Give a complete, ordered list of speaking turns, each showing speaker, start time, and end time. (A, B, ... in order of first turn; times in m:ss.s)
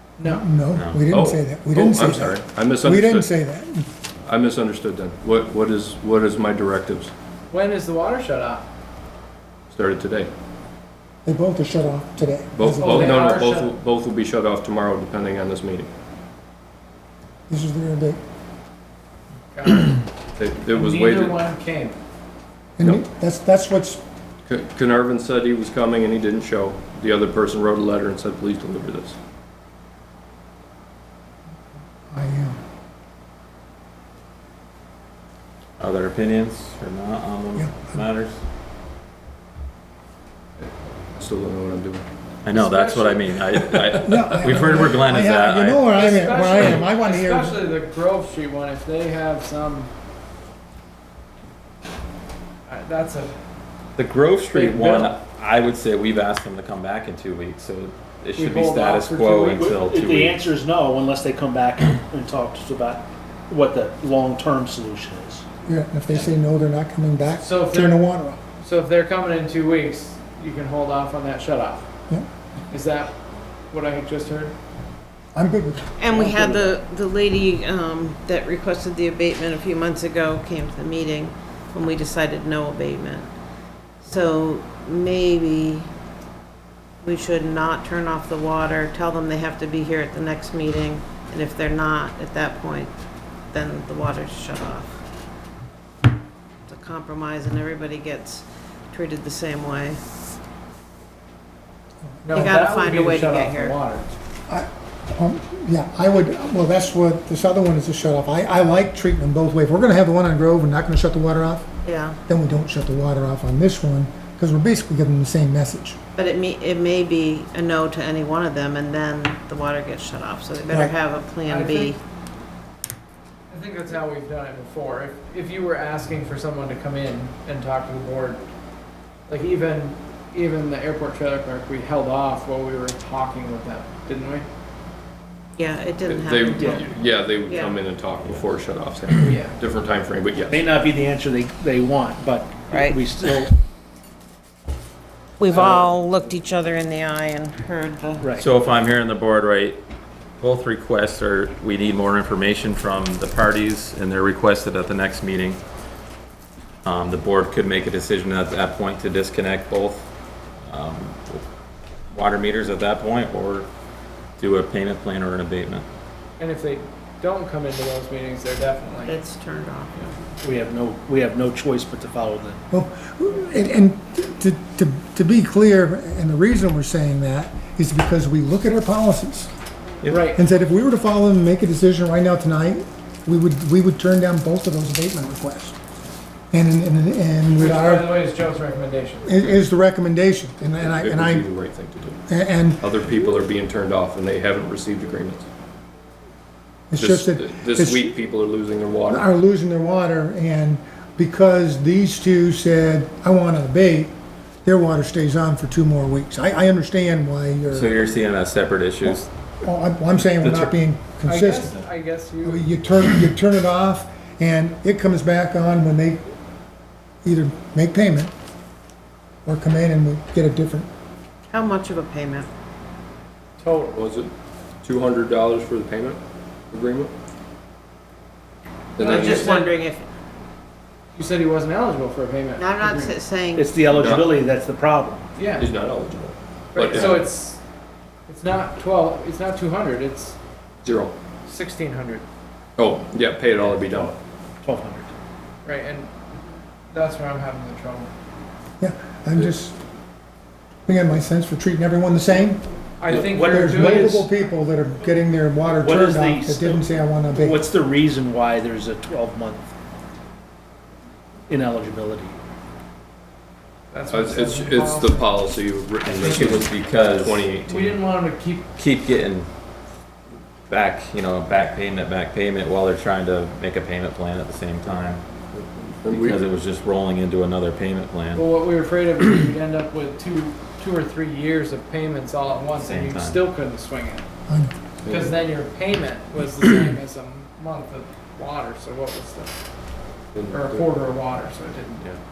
0:00.2-0:00.4 A
0:00.2-0:03.9 B
0:00.7-0:01.0 C
0:01.1-0:03.3 D
0:04.3-0:07.1 D
0:07.5-0:08.7 A
0:09.7-0:10.3 D
0:11.2-0:13.3 B
0:12.6-0:15.9 D
0:12.8-0:13.7 A
0:17.5-0:18.2 B
0:19.5-0:20.1 A
0:20.4-0:21.4 D
0:20.7-0:22.0 A
0:22.8-0:24.0 B
0:24.4-0:29.2 D
0:32.1-0:32.6 B
0:35.8-0:38.4 C
0:37.6-0:38.0 B
0:40.6-0:42.0 D
0:42.4-0:46.8 C
0:42.5-0:43.4 A
0:43.6-0:44.6 D
0:44.0-0:47.6 B
0:45.9-0:49.9 A
0:52.7-0:53.3 A
0:54.0-1:00.4 C
0:54.5-0:55.2 A
0:58.4-0:59.6 A
0:59.5-1:05.4 E
1:05.6-1:08.4 B
1:07.4-1:08.0 A
1:08.6-1:11.8 A
1:12.7-1:13.1 A
1:13.7-1:14.5 A
1:15.3-1:16.3 B
1:16.0-1:23.3 F
1:16.1-1:16.7 E
1:24.0-1:25.9 F
1:27.0-1:32.9 F
1:33.5-1:35.0 F
1:36.7-1:40.0 F
1:42.2-1:44.1 A
1:42.3-1:43.8 F
1:44.5-1:51.7 B
1:51.8-1:52.2 F
1:52.3-1:56.0 B
1:56.2-2:02.0 F
2:01.4-2:01.9 A
2:03.5-2:08.4 A
2:09.3-2:14.4 A
2:15.6-2:16.8 F
2:16.0-2:20.6 D
2:17.5-2:17.8 F
2:19.2-2:19.6 A
2:20.5-2:23.5 E
2:22.7-2:23.0 F
2:25.4-2:28.2 F
2:25.5-2:25.9 E
2:28.4-2:29.8 C
2:30.4-2:35.6 C
2:36.8-2:40.1 C
2:40.6-2:41.4 C
2:42.1-2:43.7 C
2:44.4-2:45.8 C
2:46.4-2:49.2 A
2:49.0-2:50.1 F
2:50.4-2:52.6 E
2:52.7-2:59.5 B
3:00.1-3:00.4 A
3:00.3-3:05.8 B
3:06.5-3:08.1 B
3:07.6-3:09.4 A
3:09.2-3:11.5 B
3:10.8-3:12.2 D
3:12.3-3:12.9 B
3:12.8-3:15.5 D
3:16.9-3:18.1 B
3:17.0-3:19.3 D
3:19.1-3:28.0 B
3:27.7-3:29.3 C
3:29.0-3:31.8 B
3:30.4-3:30.7 C
3:31.2-3:32.7 A
3:32.4-3:36.2 B
3:37.2-3:38.3 B
3:39.4-3:40.9 B
3:41.5-3:42.5 F
3:43.6-3:44.0 A
3:43.9-3:46.2 D
3:46.7-3:47.1 D
3:49.0-3:49.5 D
3:49.0-3:50.1 F
3:49.0-3:49.8 A
3:51.1-3:53.2 A
3:52.6-3:53.8 F
3:53.5-3:55.3 E
3:53.9-3:54.2 D
3:55.4-3:55.7 A
3:55.6-3:57.3 D
3:56.7-3:57.6 A
3:56.8-3:57.2 E
3:58.3-4:00.3 A
4:00.8-4:01.1 D
4:01.4-4:02.2 A
4:02.8-4:04.1 D
4:04.6-4:05.1 E
4:05.6-4:06.1 A
4:06.9-4:08.1 A
4:08.8-4:09.8 B
4:10.8-4:12.6 B
4:13.0-4:14.2 A
4:13.1-4:14.3 E
4:13.4-4:17.6 B
4:15.8-4:19.7 E
4:21.5-4:22.4 E
4:23.9-4:25.4 A
4:24.1-4:28.0 D
4:26.0-4:27.5 C
4:26.2-4:26.6 A
4:27.6-4:28.7 A
4:28.8-4:29.5 C
4:30.7-4:35.2 C
4:35.5-4:36.4 D
4:36.1-4:38.4 C
4:38.3-4:44.2 A
4:42.8-4:43.4 C
4:44.5-4:44.7 B
4:45.0-4:45.3 D
4:45.1-4:49.6 A
4:50.3-4:50.9 D
4:50.5-4:52.1 A